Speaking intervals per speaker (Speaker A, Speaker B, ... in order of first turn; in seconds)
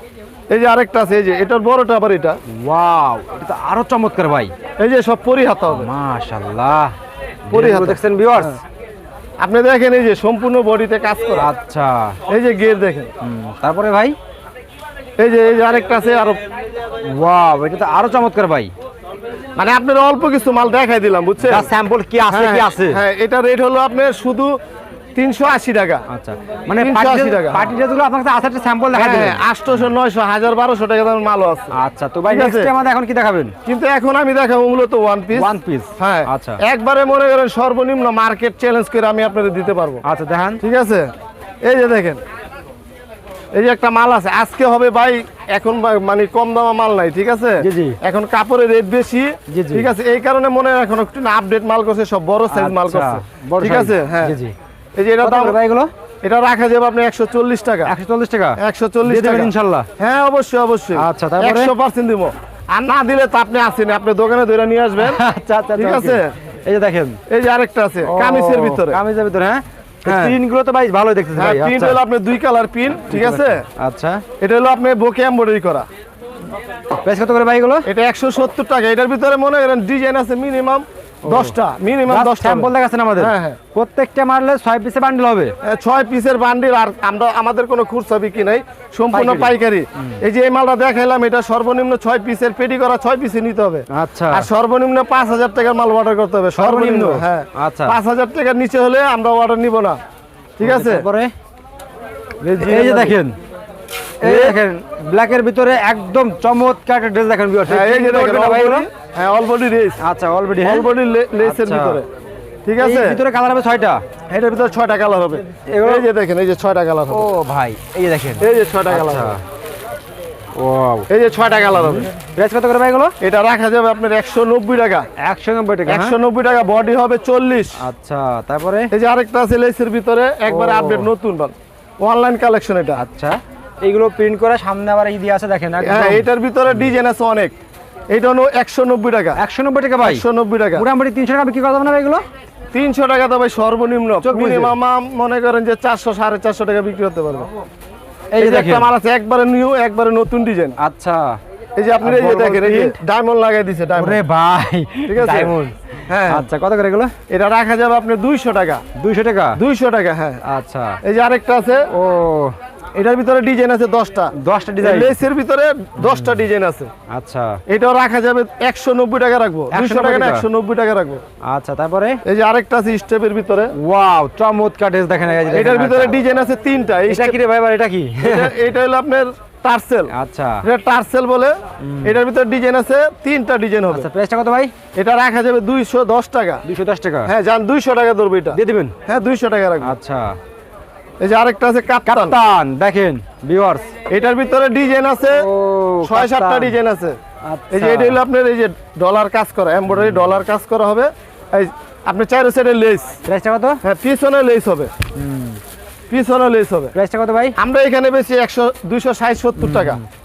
Speaker A: 0.5-2.4, 4.8-5.9, 7.5-8.6, 9.4-11.5, 12.3-13.1, 15.2-16.4, 19.6-21.7, 22.3-24.6, 25.1-26.0, 26.8-27.7, 28.9-31.7, 32.3-32.7, 33.7-40.0, 40.6-41.1, 41.6-42.2, 43.5-54.4, 55.0-55.6, 56.2-58.0, 58.6-65.2, 65.8-66.3, 67.3-69.0, 70.0-70.4, 71.3-73.7, 74.4-75.9, 77.8-83.6, 85.6-100.0, 100.6-101.1, 102.5-103.2, 104.2-104.6, 107.7-110.0, 110.6-112.1, 112.7-113.2, 114.3-117.3, 118.4-119.3, 121.1-122.1, 123.2-125.1, 125.8-127.8, 128.9-133.0, 135.8-137.5, 138.1-139.4, 140.0-140.8, 142.7-147.5, 148.4-150.8, 151.8-154.2, 155.1-155.5, 156.1-156.5, 157.3-158.8, 159.6-160.4, 161.0-161.9, 162.9-166.9, 167.7-171.2, 172.2-173.7, 175.5-177.4, 178.2-184.1, 184.9-186.6, 187.2-189.9, 191.2-192.3, 194.1-195.5, 196.0-197.2, 197.7-203.2, 203.8-204.9, 206.1-206.9, 207.6-210.0
Speaker B: 2.5-4.5, 5.7-6.9, 7.5-8.6, 11.4-12.2, 13.2-14.2, 17.0-18.7, 21.4-23.0, 26.1-29.8, 31.7-33.5, 35.3-36.6, 40.0-40.6, 47.6-48.0, 49.5-49.9, 52.5-54.5, 55.2-55.9, 57.9-59.9, 61.0-61.7, 65.0-67.2, 68.0-72.0, 73.1-74.2, 77.0-77.9, 81.2-81.5, 82.1-85.5, 89.1-90.2, 93.9-94.5, 96.5-98.0, 100.6-101.3, 102.5-103.3, 104.2-108.9, 110.0-110.9, 111.4-112.0, 112.8-114.0, 115.7-116.1, 117.1-119.4, 120.5-121.1, 122.2-123.2, 125.2-126.2, 127.8-128.9, 130.5-131.1, 133.0-136.9, 139.3-142.2, 144.2-144.7, 148.3-148.9, 150.8-151.4, 152.0-152.9, 154.0-155.7, 156.3-157.1, 158.9-159.6, 160.4-161.0, 161.9-162.6, 164.3-165.2, 166.0-166.4, 167.1-167.6, 169.7-170.5, 171.4-172.2, 173.7-176.2, 177.1-178.5, 180.1-180.7, 181.8-182.2, 183.9-184.7, 186.6-187.3, 188.5-188.9, 189.8-190.4, 192.1-193.9, 195.3-196.7, 197.4-198.2, 199.9-200.4, 203.2-203.8, 205.2-205.6, 206.9-207.6, 209.6-210.1